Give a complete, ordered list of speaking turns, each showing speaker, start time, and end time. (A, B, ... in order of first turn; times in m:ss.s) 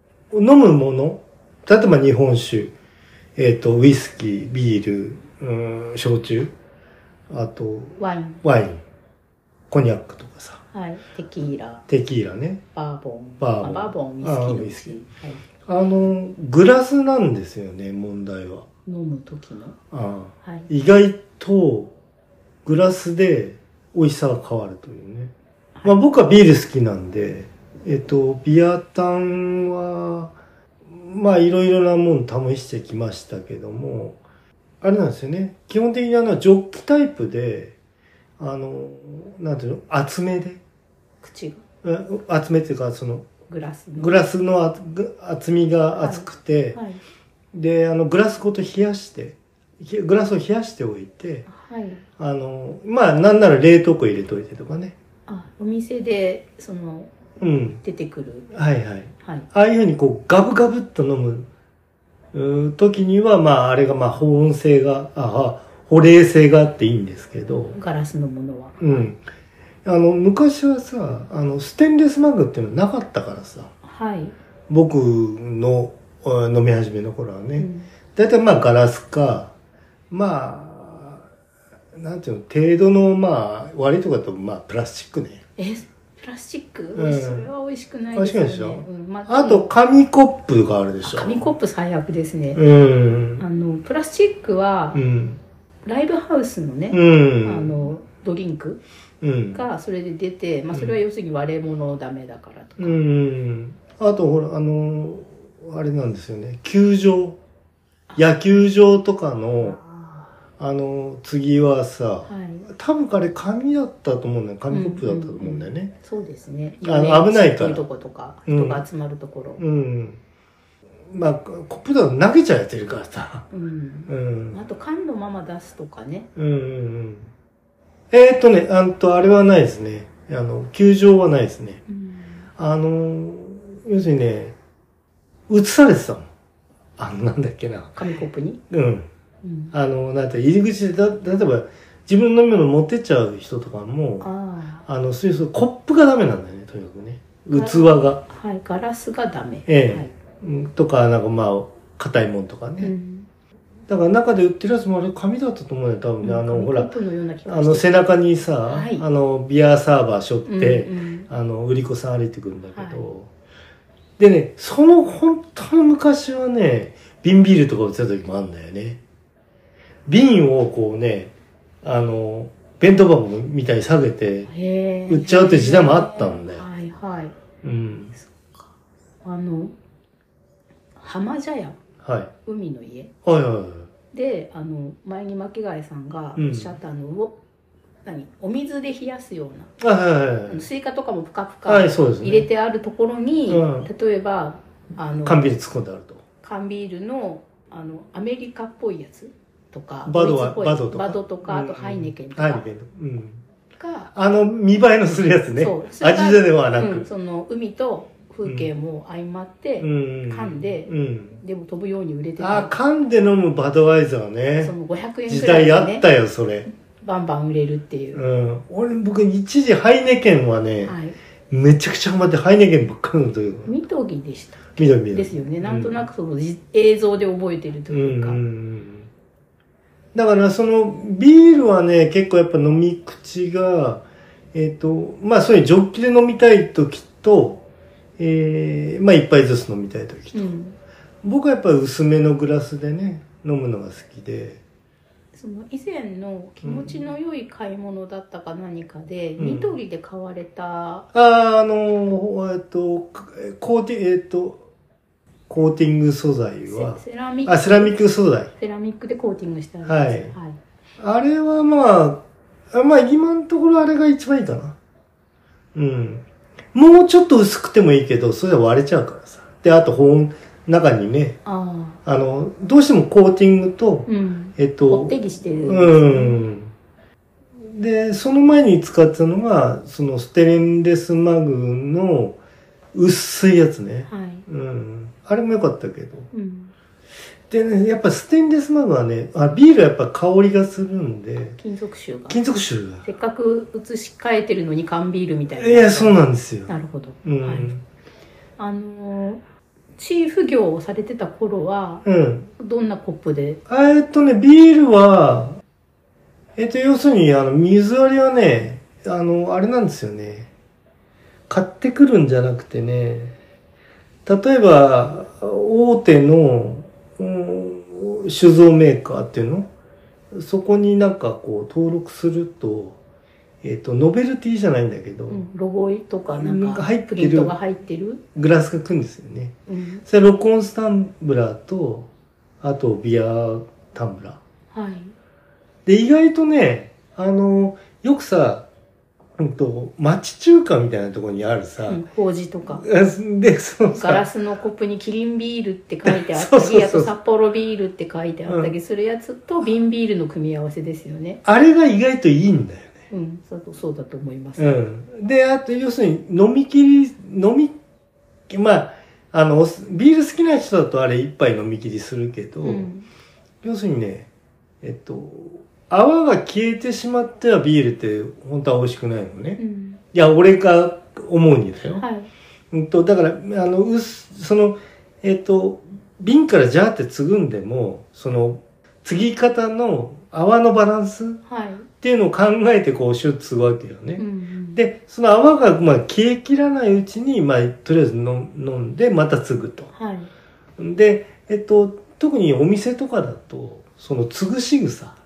0:00.3-0:02.7 A
0:03.4-0:06.5 A
0:07.3-0:08.8 A
0:08.0-0:08.4 B
0:09.7-0:10.6 A
0:10.7-0:11.8 B
0:11.9-0:12.6 A
0:12.7-0:15.4 B
0:13.4-0:15.0 A
0:15.6-0:18.6 A
0:18.8-0:19.8 B
0:19.9-0:21.9 A
0:22.6-0:25.3 A
0:25.8-0:30.3 A
0:30.9-0:34.2 A
0:34.8-0:37.7 A
0:38.4-0:40.6 A
0:41.2-0:41.6 B
0:41.8-0:43.3 A
0:43.5-0:44.2 B
0:44.0-0:46.8 A
0:46.0-0:47.0 B
0:47.5-0:51.5 A
0:51.5-0:52.0 B
0:52.2-0:54.9 A
0:55.3-0:57.1 B
0:57.4-0:57.8 A
0:57.8-0:58.5 B
0:58.5-1:01.4 A
0:59.2-0:59.5 B
1:02.3-1:07.8 A
1:07.7-1:09.1 B
1:08.8-1:09.2 A
1:09.8-1:13.7 A
1:13.8-1:14.3 B
1:14.7-1:19.5 A
1:17.6-1:17.9 B
1:20.1-1:21.2 A
1:21.9-1:25.4 A
1:25.6-1:29.7 B
1:26.9-1:27.5 A
1:28.1-1:31.4 A
1:31.0-1:32.6 B
1:32.5-1:33.4 A
1:33.4-1:35.0 B
1:34.9-1:35.4 A
1:35.8-1:38.8 B
1:36.9-1:37.7 A
1:39.2-1:39.6 A
1:39.5-1:43.0 B
1:42.8-1:47.4 A
1:48.1-1:48.7 B
1:48.2-1:49.8 A
1:49.6-1:50.3 B
1:50.6-1:55.9 A
1:52.2-1:52.7 B
1:54.7-1:59.6 B
1:56.8-1:57.8 A
1:58.5-1:58.8 A
1:59.6-2:00.2 A
2:01.1-2:03.5 A
2:03.5-2:06.3 B
2:04.1-2:04.6 A
2:06.4-2:07.3 A
2:08.1-2:11.8 A
2:11.9-2:12.4 B
2:12.6-2:14.5 A
2:15.5-2:16.3 A
2:17.0-2:18.0 A
2:18.0-2:18.6 B
2:18.7-2:19.1 A
2:19.4-2:19.7 B
2:19.7-2:24.3 A
2:24.2-2:24.8 B
2:24.8-2:28.2 A
2:27.5-2:30.1 B
2:29.7-2:32.9 A
2:32.8-2:33.3 B
2:33.9-2:36.9 A
2:36.2-2:38.0 B
2:37.4-2:43.3 A
2:38.6-2:39.0 B
2:40.5-2:41.3 B
2:42.7-2:43.0 B
2:44.2-2:49.0 A
2:50.1-2:51.3 A
2:51.8-2:54.5 A
2:54.5-2:57.3 B
2:55.1-2:56.6 A
2:57.6-2:58.2 A
2:58.2-2:58.7 B
2:59.2-2:59.7 B
3:01.0-3:01.8 B
3:02.0-3:02.3 A
3:02.4-3:03.1 B
3:03.2-3:03.9 A
3:04.1-3:07.4 B
3:06.4-3:06.8 A
3:08.0-3:09.7 B
3:09.8-3:10.6 A
3:10.5-3:15.5 B
3:11.6-3:12.5 A
3:13.5-3:13.9 A
3:15.2-3:16.2 A
3:16.4-3:22.6 B
3:20.0-3:23.4 A
3:23.8-3:24.1 B
3:24.1-3:27.0 A
3:25.6-3:32.7 B
3:29.8-3:31.4 A
3:32.4-3:34.7 A
3:34.6-3:36.0 B
3:35.3-3:36.7 A
3:37.0-3:38.2 B
3:38.1-3:41.0 A
3:40.8-3:41.2 B
3:41.5-3:43.7 A
3:43.6-3:48.4 B
3:44.8-3:46.0 A
3:47.9-3:49.1 A
3:50.1-3:57.6 A
3:58.2-4:00.5 A
4:00.3-4:00.7 B
4:01.2-4:04.6 A
4:05.3-4:11.1 B
4:06.6-4:07.0 A
4:09.4-4:09.7 A
4:11.1-4:14.6 A
4:15.5-4:18.5 A
4:16.7-4:18.0 B
4:18.6-4:20.6 B
4:19.8-4:20.3 A
4:21.0-4:24.7 A
4:25.7-4:31.4 A
4:31.4-4:32.0 B
4:32.0-4:36.7 A
4:34.1-4:36.4 B
4:37.7-4:42.4 A
4:42.9-4:46.3 A
4:44.1-4:44.4 B
4:46.3-4:46.7 B
4:47.5-4:51.6 A
4:51.6-4:52.4 B
4:52.3-4:53.1 A
4:53.0-4:57.7 B
4:55.5-4:56.7 A
4:57.2-4:57.8 A
4:58.6-4:59.4 B
5:00.0-5:02.0 B
5:02.0-5:02.5 A
5:02.6-5:03.6 B
5:03.7-5:05.6 A
5:06.6-5:10.5 A
5:11.5-5:13.3 A
5:14.2-5:19.7 A
5:20.3-5:23.0 A
5:23.6-5:25.4 A
5:25.3-5:28.2 B
5:26.4-5:27.5 A
5:28.3-5:29.5 A
5:29.7-5:30.0 B
5:30.0-5:32.1 A
5:32.6-5:34.4 A
5:34.7-5:35.1 B
5:35.8-5:38.6 A
5:39.4-5:42.0 A
5:41.8-5:42.8 B
5:42.7-5:44.2 A
5:43.9-5:51.4 B
5:46.0-5:47.1 A
5:48.5-5:48.7 A
5:51.4-5:52.9 A
5:53.1-5:54.7 B
5:54.6-5:57.8 A
5:58.5-6:02.9 A
6:02.6-6:03.1 B
6:03.6-6:04.3 A
6:04.8-6:09.6 A
6:09.6-6:10.0 B
6:10.1-6:12.0 A
6:12.0-6:12.3 B
6:12.7-6:21.4 A
6:21.5-6:21.9 B
6:22.0-6:29.9 A
6:24.2-6:24.8 B
6:29.9-6:30.3 B
6:30.8-6:35.2 A